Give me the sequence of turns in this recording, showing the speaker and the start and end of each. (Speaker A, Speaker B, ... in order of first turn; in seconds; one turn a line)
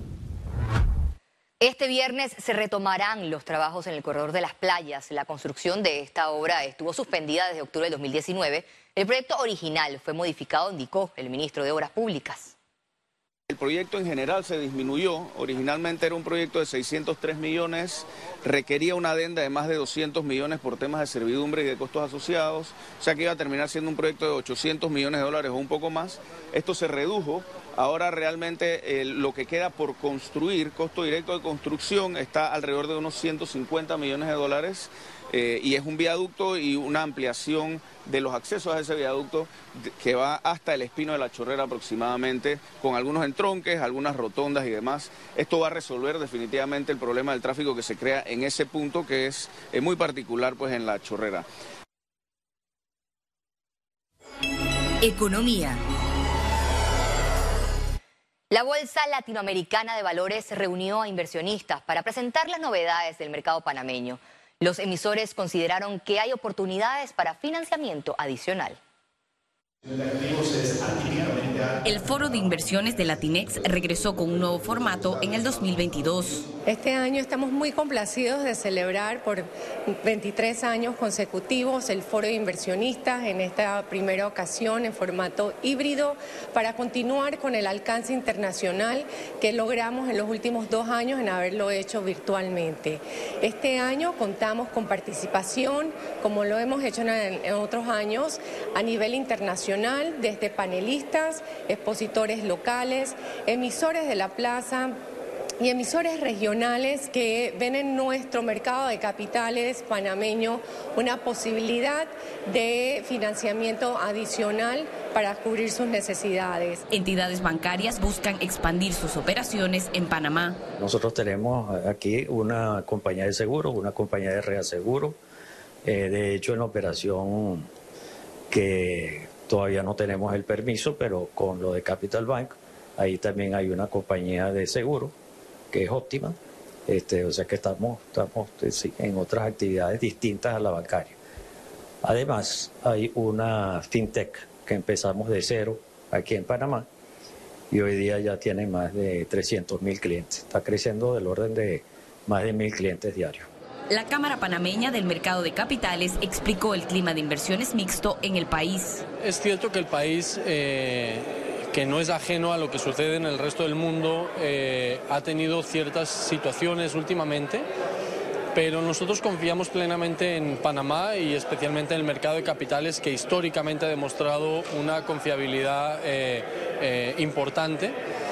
Speaker A: 1.6-12.5
Speaker B: 13.5-51.5
Speaker A: 55.0-55.8
Speaker A: 58.5-68.8
Speaker C: 71.8-76.4
Speaker D: 71.9-72.9
Speaker E: 76.6-105.0
Speaker E: 105.6-116.8
Speaker D: 116.9-120.5
Speaker C: 117.0-117.4
Speaker F: 120.8-125.2
Speaker F: 125.9-127.7
Speaker F: 128.5-135.1
Speaker F: 135.7-136.3
Speaker F: 136.9-141.1
Speaker F: 142.0-146.8
Speaker F: 147.7-153.4
Speaker D: 153.9-158.9
Speaker C: 154.6-167.7
Speaker C: 168.5-177.9